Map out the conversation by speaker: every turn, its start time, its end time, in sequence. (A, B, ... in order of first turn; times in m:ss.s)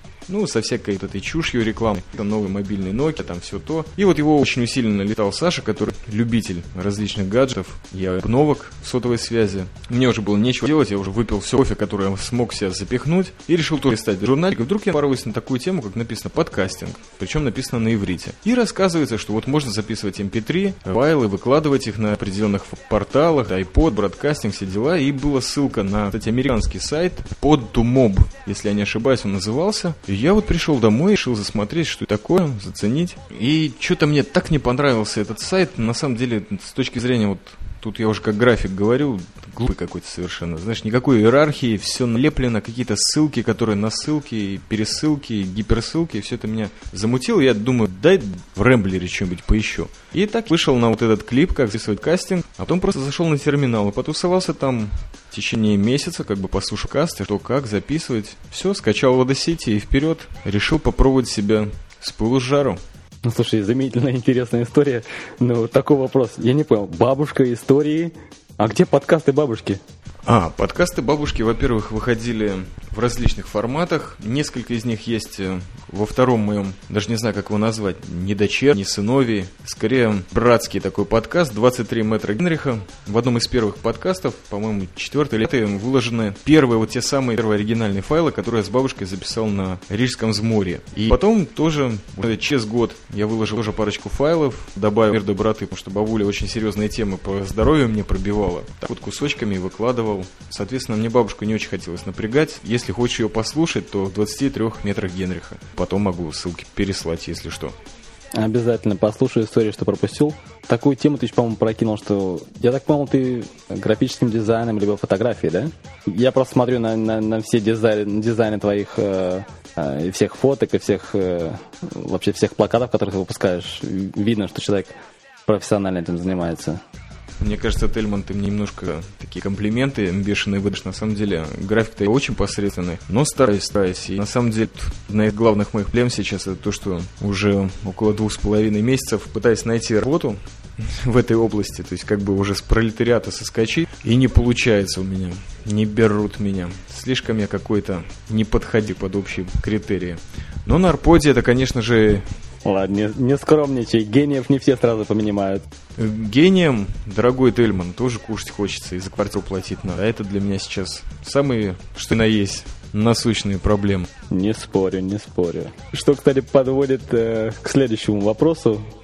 0:00.3-1:02.8 A
1:03.2-1:09.8 B
1:10.2-1:47.8 A
1:48.4-2:04.9 B
2:05.5-2:06.8 B
2:07.4-2:32.3 A
2:32.6-2:35.6 B
2:36.0-2:44.1 A
2:44.3-2:48.9 B